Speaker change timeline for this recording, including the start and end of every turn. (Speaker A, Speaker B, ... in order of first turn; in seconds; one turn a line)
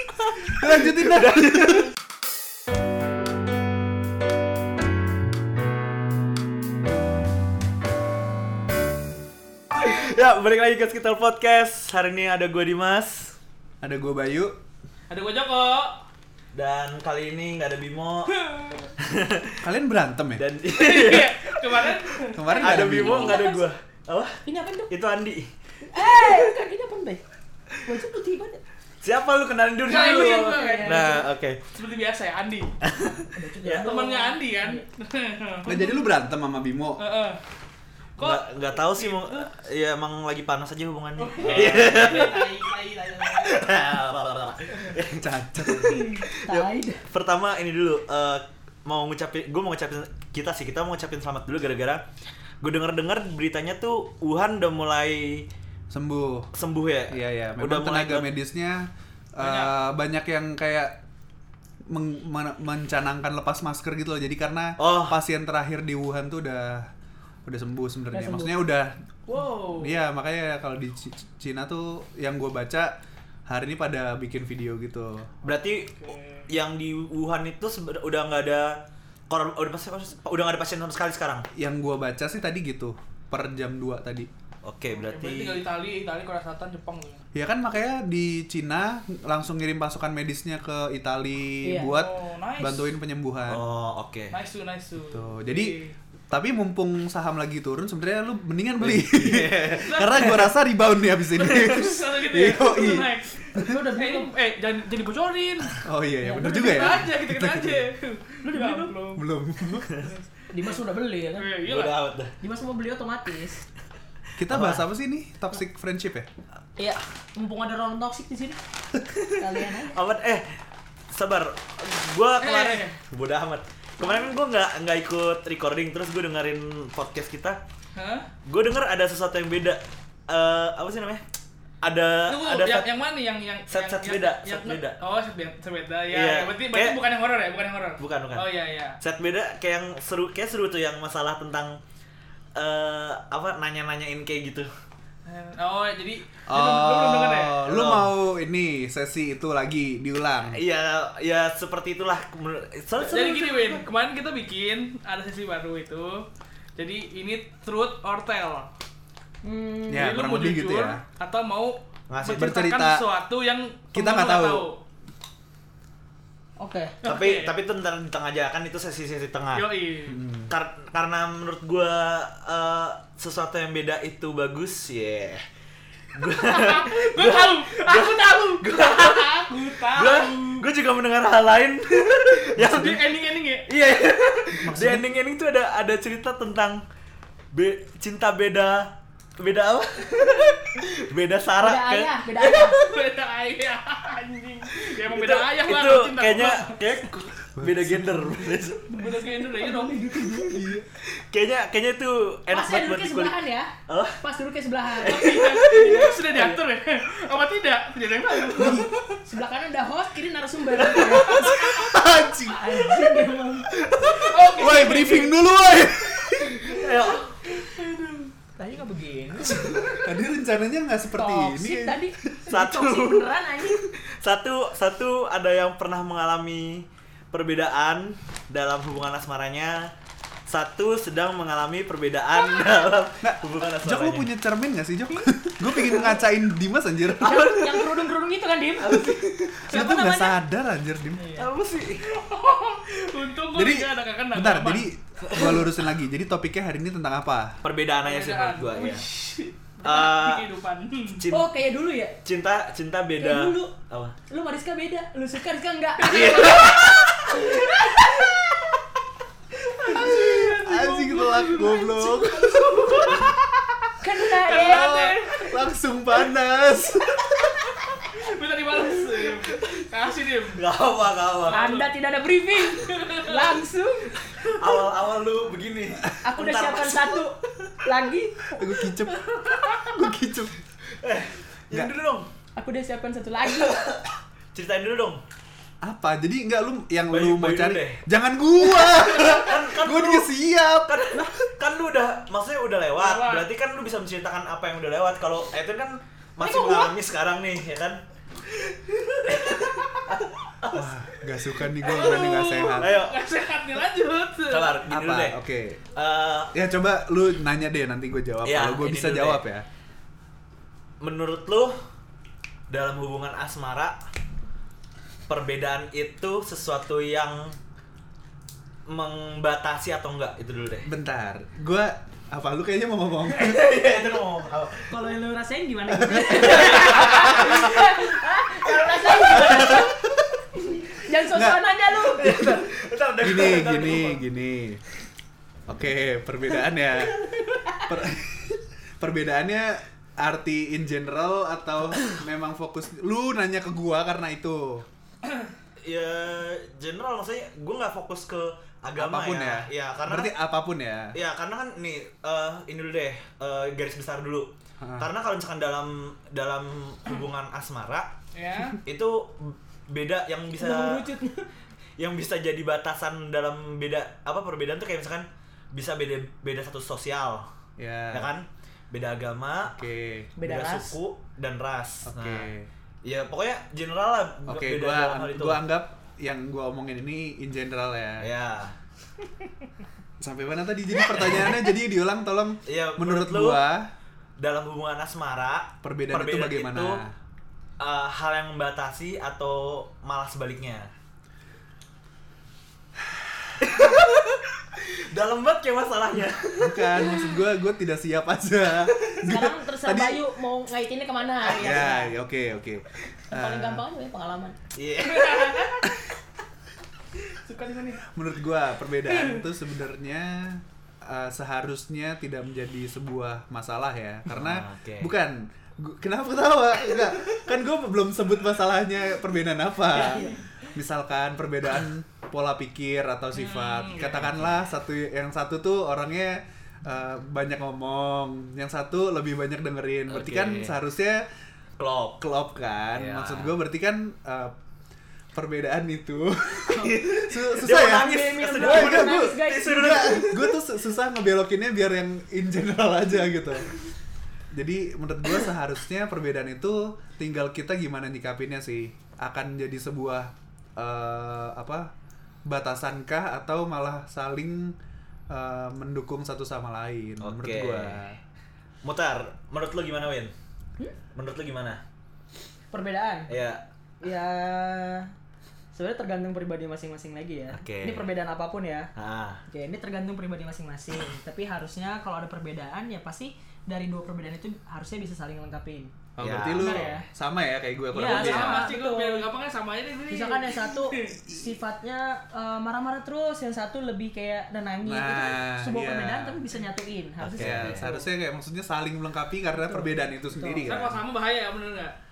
Speaker A: 0.5-1.8
Speaker B: 0.8-1.8
Speaker B: 9.7-13.4
Speaker A: 13.8-14.6
Speaker C: 15.1-16.0
Speaker B: 16.5-18.3
Speaker C: 18.3-18.9
Speaker B: 19.0-19.6
Speaker A: 19.6-20.4
Speaker B: 20.4-21.9
Speaker C: 20.7-23.1
Speaker A: 22.3-23.4
Speaker B: 22.6-26.4
Speaker D: 22.9-23.7
Speaker D: 24.4-24.9
Speaker D: 25.8-27.2
Speaker D: 27.9-28.6
Speaker B: 29.0-31.6
Speaker C: 29.8-32.7
Speaker D: 29.9-31.3
Speaker B: 32.8-33.9
Speaker D: 33.3-34.8
Speaker C: 33.8-36.0
Speaker A: 35.6-37.0
Speaker C: 37.0-37.4
Speaker C: 38.2-39.5
Speaker B: 38.2-42.5
Speaker C: 41.2-43.7
Speaker A: 41.4-42.0
Speaker B: 43.2-52.0
Speaker A: 45.1-46.0
Speaker D: 46.0-47.0
Speaker B: 52.6-55.5
Speaker A: 55.9-56.5
Speaker B: 56.5-58.3
Speaker A: 57.1-61.0
Speaker C: 59.4-59.7
Speaker A: 61.9-66.9
Speaker B: 64.8-65.2
Speaker A: 67.5-69.0
Speaker D: 68.1-68.6
Speaker C: 69.3-70.0
Speaker A: 69.8-72.9
Speaker A: 73.5-75.3
Speaker B: 75.4-75.9
Speaker C: 75.8-76.5
Speaker B: 76.5-81.4
Speaker A: 81.5-84.3
Speaker B: 84.6-85.6
Speaker C: 84.9-87.2
Speaker A: 87.3-93.6
Speaker D: 91.6-91.9
Speaker C: 91.9-92.9
Speaker B: 93.5-94.4
Speaker C: 94.3-96.0
Speaker A: 95.0-95.8
Speaker A: 96.3-103.8
Speaker B: 98.8-100.3
Speaker C: 99.8-100.4
Speaker C: 101.3-109.2
Speaker D: 103.5-104.3
Speaker A: 105.8-107.9
Speaker D: 106.2-107.0
Speaker D: 108.5-109.0
Speaker A: 109.1-109.9
Speaker D: 110.5-111.6
Speaker C: 111.3-112.1
Speaker B: 111.6-112.3
Speaker D: 112.4-113.6
Speaker A: 114.4-116.3
Speaker B: 114.5-114.8
Speaker D: 116.8-118.6
Speaker D: 119.3-120.0
Speaker B: 119.9-120.6
Speaker B: 121.1-127.6
Speaker C: 122.4-123.0
Speaker C: 127.9-128.3
Speaker B: 128.4-131.2
Speaker B: 131.8-132.9
Speaker C: 132.3-139.0
Speaker B: 133.7-135.0
Speaker B: 136.1-137.0
Speaker B: 138.0-138.5
Speaker B: 139.0-141.8
Speaker B: 142.5-144.7
Speaker C: 145.2-147.6
Speaker A: 146.5-150.6
Speaker B: 147.6-148.1
Speaker B: 150.5-153.6
Speaker C: 153.1-158.7
Speaker D: 153.1-153.8
Speaker D: 159.4-160.1
Speaker A: 159.9-161.0
Speaker C: 159.9-164.8
Speaker B: 162.1-162.6
Speaker A: 162.3-163.0
Speaker A: 163.9-164.7
Speaker D: 166.6-167.0
Speaker C: 167.0-167.5
Speaker B: 167.0-169.7
Speaker C: 169.5-170.2
Speaker A: 170.1-170.5
Speaker B: 170.5-175.4
Speaker B: 176.1-182.9
Speaker C: 176.3-180.7
Speaker C: 182.6-183.7
Speaker A: 182.6-183.0
Speaker B: 183.7-186.8
Speaker A: 184.6-185.1
Speaker B: 187.5-192.1
Speaker D: 191.6-192.9
Speaker C: 192.4-196.8
Speaker B: 195.0-198.9
Speaker A: 197.6-198.6
Speaker C: 198.9-200.2
Speaker D: 199.0-200.7
Speaker A: 200.5-200.8
Speaker B: 201.0-203.3
Speaker D: 202.5-205.9
Speaker B: 203.9-204.2
Speaker B: 205.0-206.6
Speaker C: 205.0-209.1
Speaker A: 208.6-208.9
Speaker D: 209.2-213.7
Speaker B: 210.8-211.6
Speaker C: 211.1-211.7
Speaker A: 211.4-212.9
Speaker A: 213.9-216.6
Speaker C: 214.1-215.4
Speaker B: 216.5-217.4
Speaker C: 217.8-218.0
Speaker D: 218.6-220.0
Speaker A: 220.0-222.4
Speaker D: 221.1-223.8
Speaker B: 222.5-229.9
Speaker B: 230.5-234.3
Speaker A: 233.2-237.5
Speaker D: 237.1-240.4
Speaker B: 237.2-237.9
Speaker B: 238.8-239.7
Speaker A: 239.7-241.4
Speaker B: 241.3-242.2
Speaker C: 242.0-244.9
Speaker A: 243.5-247.6
Speaker B: 245.3-245.7
Speaker B: 247.6-249.0
Speaker C: 248.0-251.2
Speaker B: 249.8-250.4
Speaker B: 251.2-251.5
Speaker D: 251.3-252.2
Speaker B: 252.2-254.2
Speaker D: 253.2-253.7
Speaker D: 254.3-258.3
Speaker C: 256.0-256.8
Speaker B: 256.0-257.6
Speaker C: 259.8-263.3
Speaker A: 260.2-263.3
Speaker D: 264.0-265.4
Speaker C: 264.4-265.2
Speaker A: 264.5-267.6
Speaker C: 268.0-270.6
Speaker B: 270.6-271.8
Speaker C: 271.5-271.9
Speaker D: 271.5-274.5
Speaker C: 272.6-273.6
Speaker B: 274.4-277.3
Speaker D: 276.2-278.7
Speaker A: 278.5-280.6
Speaker C: 279.4-279.8
Speaker B: 281.0-282.3
Speaker D: 282.6-283.9
Speaker B: 283.6-285.2
Speaker A: 285.8-291.4
Speaker B: 287.1-288.0
Speaker B: 288.6-290.3
Speaker B: 290.8-298.0
Speaker C: 293.0-293.5
Speaker D: 296.4-296.9
Speaker B: 299.0-300.9
Speaker C: 299.2-300.0
Speaker A: 300.7-303.0
Speaker C: 301.8-304.8
Speaker B: 301.9-302.2
Speaker B: 302.7-303.2
Speaker B: 304.5-305.4
Speaker A: 304.9-305.8
Speaker B: 305.9-306.5
Speaker A: 306.5-309.6
Speaker B: 308.4-309.4
Speaker B: 311.0-311.8
Speaker B: 312.7-314.0
Speaker B: 315.3-317.6
Speaker B: 318.9-320.9
Speaker A: 320.8-323.7
Speaker B: 323.3-324.9
Speaker D: 324.9-332.7
Speaker A: 325.9-327.6
Speaker B: 326.4-327.8
Speaker B: 328.6-329.8
Speaker A: 329.3-330.0
Speaker A: 331.3-331.6
Speaker B: 332.0-334.2
Speaker A: 333.2-334.8
Speaker A: 335.7-344.9
Speaker B: 345.8-350.3
Speaker A: 349.0-351.2
Speaker B: 351.1-358.1
Speaker A: 354.8-355.1
Speaker C: 358.3-358.8
Speaker B: 358.8-361.0
Speaker D: 360.6-361.5
Speaker B: 362.0-367.5
Speaker A: 367.8-368.3
Speaker B: 368.1-369.8
Speaker A: 369.7-370.3
Speaker D: 370.4-371.0
Speaker B: 370.4-372.5
Speaker A: 372.0-372.7
Speaker B: 373.0-375.6
Speaker A: 374.5-378.3
Speaker B: 378.2-378.8
Speaker A: 380.2-383.9
Speaker B: 381.1-381.5
Speaker B: 382.6-383.6
Speaker B: 384.4-387.0
Speaker A: 385.8-387.1
Speaker B: 387.8-390.9
Speaker B: 393.6-397.2
Speaker A: 396.6-400.2
Speaker D: 399.2-402.1
Speaker A: 401.4-403.8
Speaker D: 403.3-404.6
Speaker B: 404.7-405.7
Speaker C: 405.1-405.8
Speaker C: 407.2-408.1
Speaker A: 408.1-431.2
Speaker C: 409.1-409.5
Speaker B: 414.3-415.1
Speaker D: 419.9-420.4
Speaker C: 423.3-424.4
Speaker B: 430.1-430.8
Speaker B: 431.8-432.2
Speaker A: 432.2-434.6
Speaker B: 432.9-433.5
Speaker A: 435.3-443.7
Speaker B: 436.8-440.6
Speaker D: 437.7-440.1
Speaker A: 444.5-451.9
Speaker A: 452.4-454.8
Speaker A: 455.3-458.2
Speaker B: 457.2-458.0
Speaker B: 458.8-460.3
Speaker B: 461.1-461.8
Speaker D: 462.7-463.3
Speaker B: 463.3-463.6
Speaker D: 464.0-465.1
Speaker D: 465.7-468.9
Speaker B: 467.5-468.1
Speaker B: 468.9-469.4
Speaker D: 469.5-475.9
Speaker A: 476.2-478.7
Speaker B: 476.2-476.9
Speaker D: 476.5-477.1
Speaker D: 477.9-479.3
Speaker C: 477.9-481.2
Speaker D: 480.1-488.1
Speaker A: 484.8-486.4
Speaker B: 487.2-487.9
Speaker A: 487.3-491.0
Speaker D: 489.7-490.7
Speaker C: 490.6-491.9